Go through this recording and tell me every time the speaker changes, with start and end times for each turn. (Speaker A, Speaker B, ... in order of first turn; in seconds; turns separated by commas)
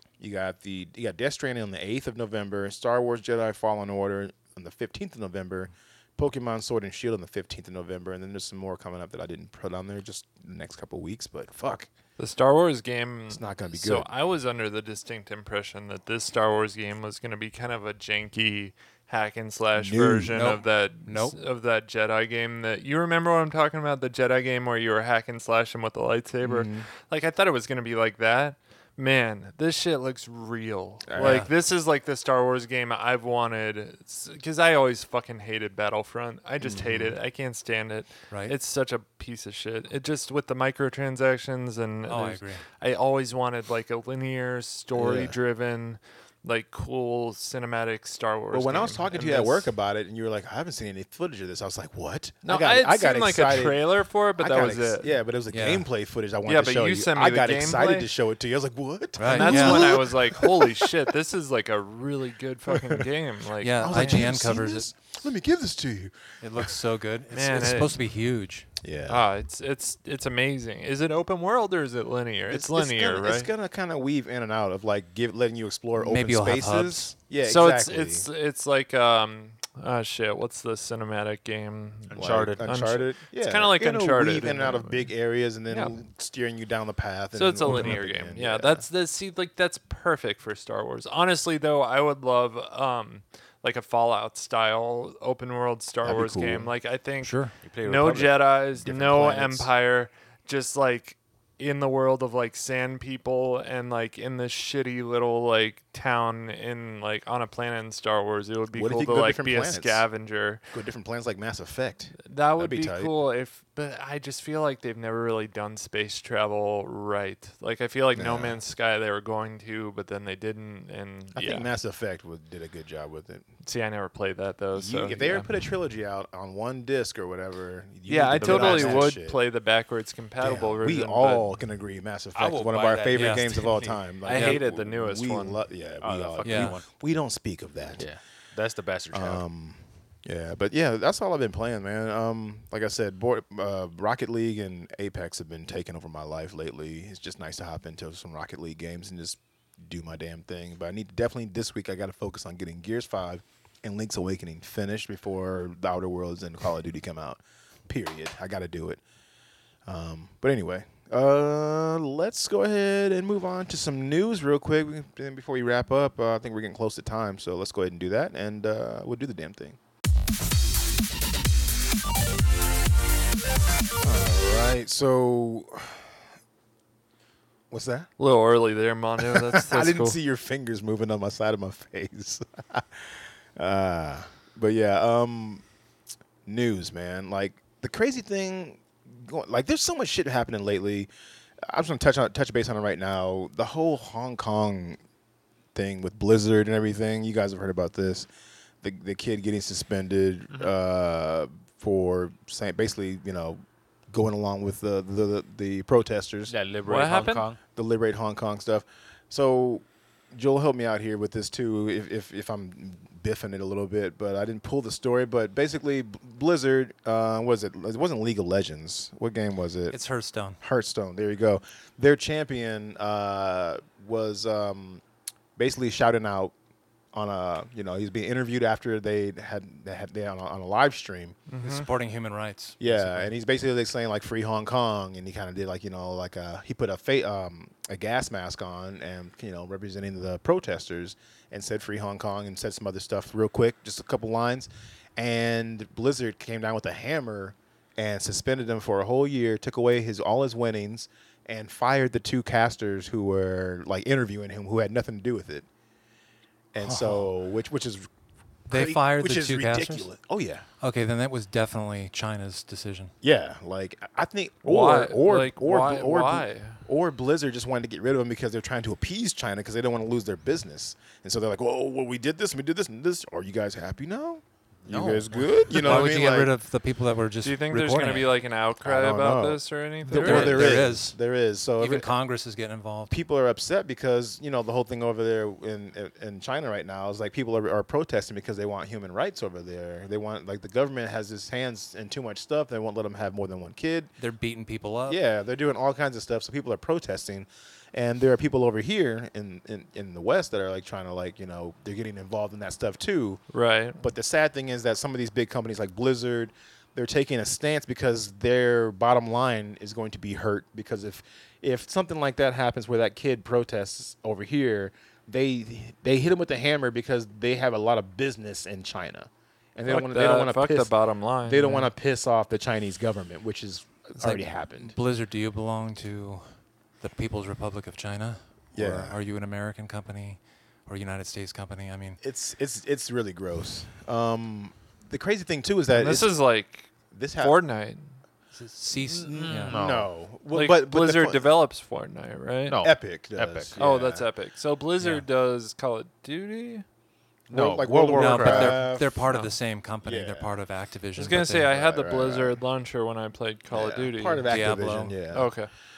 Speaker A: 0.2-11.9, Speaker B: 12.2-49.7, Speaker A: 13.3-14.1, Speaker A: 19.8-20.4, Speaker C: 20.3-21.4, Speaker A: 26.4-26.9, Speaker A: 31.1-31.5, Speaker C: 31.2-31.5, Speaker A: 36.6-37.1, Speaker C: 42.1-42.6, Speaker A: 44.9-45.4, Speaker A: 48.5-53.8, Speaker B: 52.4-55.2, Speaker A: 54.4-61.0, Speaker C: 55.5-55.9, Speaker B: 56.5-58.1, Speaker C: 59.2-60.0, Speaker B: 59.3-64.3, Speaker A: 62.7-63.0, Speaker C: 63.6-64.9, Speaker A: 63.8-66.7, Speaker C: 66.4-68.7, Speaker B: 67.3-68.0, Speaker A: 68.8-69.3, Speaker B: 69.1-73.5, Speaker A: 72.5-78.3, Speaker C: 76.0-77.1, Speaker B: 77.4-85.2, Speaker D: 82.1-82.8, Speaker A: 82.2-88.8, Speaker B: 85.7-86.0, Speaker B: 87.3-110.6, Speaker C: 87.7-88.0, Speaker A: 96.0-96.7, Speaker C: 97.2-97.5, Speaker D: 97.6-98.4, Speaker A: 98.8-99.7, Speaker A: 108.7-110.0, Speaker A: 110.7-113.1, Speaker B: 112.2-121.7, Speaker A: 118.2-118.6, Speaker A: 121.3-123.5, Speaker B: 123.6-125.5, Speaker A: 124.7-129.4, Speaker B: 128.1-131.5, Speaker C: 128.4-129.1, Speaker A: 130.4-138.1, Speaker D: 132.3-134.0, Speaker C: 133.1-133.7, Speaker B: 134.2-135.6, Speaker C: 134.3-134.6, Speaker D: 136.0-136.9, Speaker C: 136.4-136.8, Speaker D: 138.0-139.4, Speaker A: 139.1-159.0, Speaker A: 159.9-169.8, Speaker A: 174.0-176.2, Speaker A: 177.7-178.1, Speaker B: 178.2-180.2, Speaker A: 179.3-185.6, Speaker A: 186.5-191.1, Speaker A: 191.6-195.0, Speaker A: 195.8-198.3, Speaker A: 198.8-206.5, Speaker D: 206.5-207.6, Speaker B: 206.9-207.5, Speaker A: 207.7-220.0, Speaker C: 219.9-220.6, Speaker A: 220.6-225.0, Speaker A: 225.6-226.5, Speaker A: 227.1-231.4, Speaker B: 231.5-231.9, Speaker C: 231.6-233.3, Speaker A: 232.8-255.7, Speaker A: 256.7-258.1, Speaker C: 256.8-257.3, Speaker A: 258.7-260.7, Speaker C: 258.7-260.1, Speaker C: 260.8-263.1, Speaker A: 263.2-276.5, Speaker B: 264.6-266.9, Speaker D: 274.9-275.5, Speaker C: 275.7-278.3, Speaker B: 277.4-280.9, Speaker A: 278.8-282.1, Speaker C: 280.1-281.2, Speaker C: 281.8-283.1, Speaker A: 283.1-294.1, Speaker C: 294.2-295.2, Speaker A: 295.1-303.4, Speaker B: 303.5-304.0, Speaker A: 304.0-320.9, Speaker B: 319.9-321.9, Speaker A: 321.4-324.9, Speaker C: 324.2-326.5, Speaker C: 327.0-332.2, Speaker A: 328.7-329.2, Speaker A: 332.2-336.3, Speaker B: 335.9-338.2, Speaker A: 337.1-337.6, Speaker C: 338.5-339.8, Speaker D: 339.0-340.1, Speaker A: 339.2-341.4, Speaker B: 340.5-342.8, Speaker D: 342.7-344.1, Speaker A: 342.8-344.2, Speaker B: 343.8-346.9, Speaker C: 345.0-345.2, Speaker D: 347.5-348.8, Speaker A: 347.5-349.3, Speaker C: 348.1-351.7, Speaker A: 350.0-350.6, Speaker B: 351.2-354.5, Speaker A: 351.6-352.6, Speaker A: 353.7-355.5, Speaker C: 354.5-355.1, Speaker B: 355.3-355.7